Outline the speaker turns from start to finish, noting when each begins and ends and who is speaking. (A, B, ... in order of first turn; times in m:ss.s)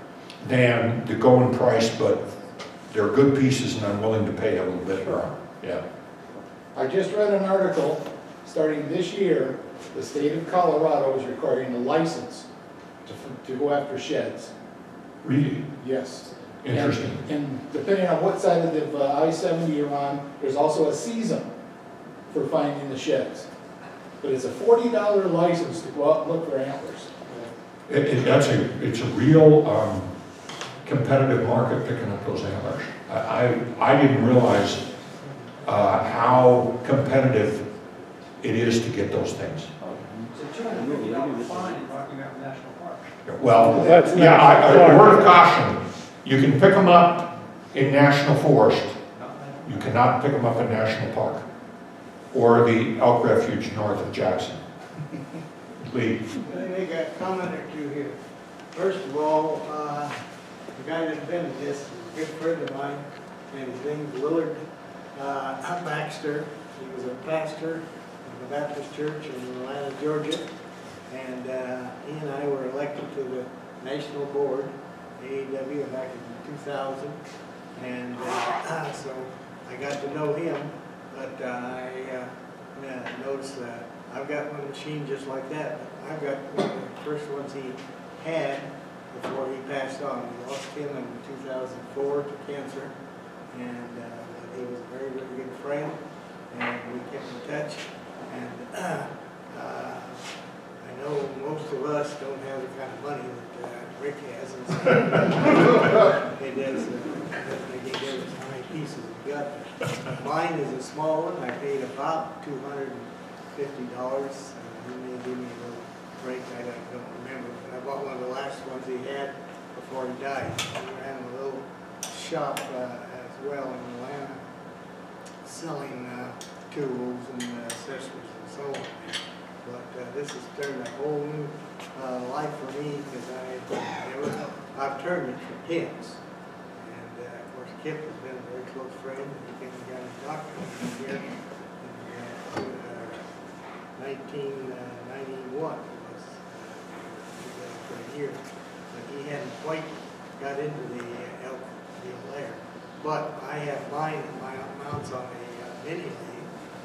0:00.4-0:02.2 A
0:02.9-0:05.8 A
0:06.7-0:12.5 B
0:13.0-0:14.5 B
0:15.2-0:15.7 A
0:15.8-0:21.5 B
0:16.6-0:17.2 A
0:22.3-0:23.5 B
0:24.2-0:27.5 B
0:27.9-0:30.1 A
0:30.8-0:34.8 A
0:35.6-0:37.6 A
0:38.4-0:39.7 A
0:40.3-0:43.2 C
0:43.2-0:49.0 A
0:49.2-0:49.9 C
0:49.6-0:51.4 A
0:52.3-0:54.6 A
0:55.8-0:56.2 A
0:56.4-0:58.2 D
0:58.7-1:00.2 D
1:00.7-1:04.6 D
1:05.1-1:10.5 D
1:11.1-1:17.2 D
1:17.8-1:32.9 D
1:33.5-1:36.0 D
1:36.5-1:40.2 D
1:40.8-2:04.4 D
2:05.4-2:16.2 D
2:16.7-2:23.2 D
2:23.9-2:36.5 D